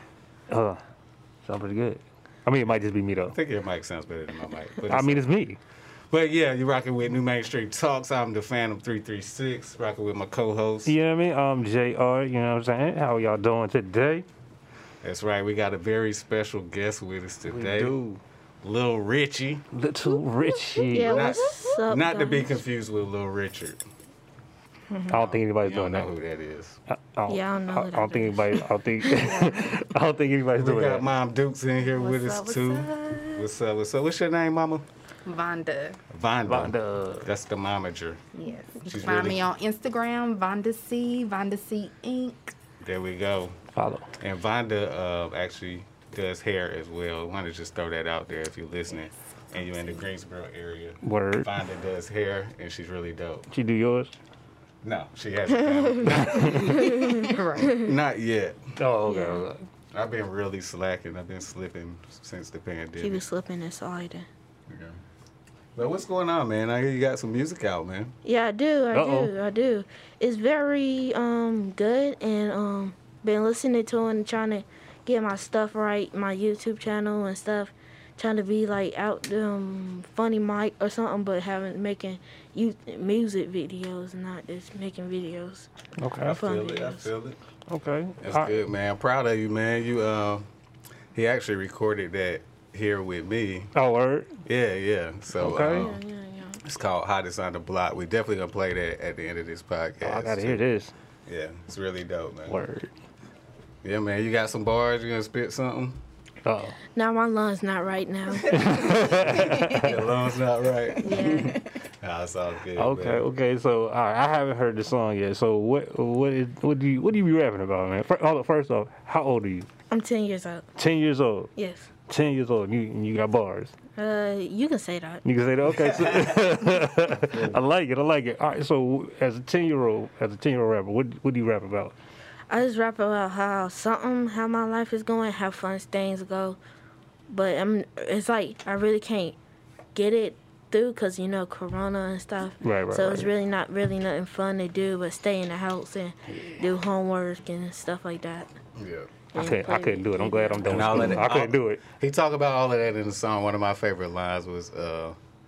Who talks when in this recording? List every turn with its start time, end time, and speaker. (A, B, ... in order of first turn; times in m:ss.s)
0:00.5-0:00.8 A
0:01.4-0:03.3 A
0:03.3-0:05.3 B
0:04.9-0:05.6 A
0:06.1-0:10.9 B
0:10.8-0:14.2 A
0:15.0-0:18.0 B
0:17.5-0:18.2 A
0:18.6-0:19.6 B
0:19.7-0:21.4 A
0:20.8-0:22.6 C
0:21.0-0:23.8 B
0:25.1-0:26.1 A
0:25.1-0:26.8 B
0:26.9-0:31.0 A
0:27.3-0:29.7 C
0:30.6-0:34.8 B
0:31.9-0:33.2 D
0:35.2-0:36.0 D
0:36.1-0:38.2 B
0:36.4-0:37.3 A
0:38.3-0:42.5 D
0:38.8-0:39.5 B
0:42.8-0:43.6 B
0:43.8-0:44.1 A
0:44.2-0:53.5 B
0:51.0-0:51.5 A
0:53.5-0:54.1 A
0:54.8-0:58.6 B
0:56.0-0:56.9 A
0:56.6-0:57.3 C
0:56.8-0:57.8 D
0:58.8-0:59.6 A
0:59.0-0:59.4 C
0:59.9-1:03.2 B
1:03.0-1:04.3 C
1:04.7-1:05.0 B
1:05.7-1:08.1 B
1:08.2-1:25.7 C
1:08.9-1:09.3 A
1:26.0-1:26.4 A
1:26.2-1:27.4 B
1:26.3-1:27.1 C
1:27.7-1:28.6 A
1:28.2-1:30.5 B
1:31.1-1:33.7 B
1:33.7-1:34.3 A
1:34.4-1:36.0 B
1:35.4-1:35.9 A
1:35.6-1:36.6 C
1:36.6-1:40.6 B
1:40.0-1:40.9 A
1:41.3-1:42.6 B
1:42.5-1:42.9 A
1:43.8-1:46.0 B
1:46.4-1:46.8 A
1:46.9-1:48.9 C
1:48.5-1:50.0 A
1:48.6-1:53.2 B
1:49.3-1:50.0 D
1:51.0-1:51.6 C
1:51.1-1:51.6 D
1:52.8-1:59.7 A
1:59.9-2:00.6 C
2:00.8-2:01.5 A
2:01.6-2:01.9 C
2:02.1-2:03.7 A
2:04.0-2:05.2 C
2:05.2-2:11.9 A
2:05.7-2:06.4 B
2:07.3-2:07.6 B
2:12.5-2:16.6 C
2:17.3-2:19.4 C
2:19.9-2:28.5 C
2:22.6-2:23.3 A
2:28.8-2:29.1 B
2:29.3-2:31.2 C
2:29.3-2:31.8 A
2:30.6-2:35.2 B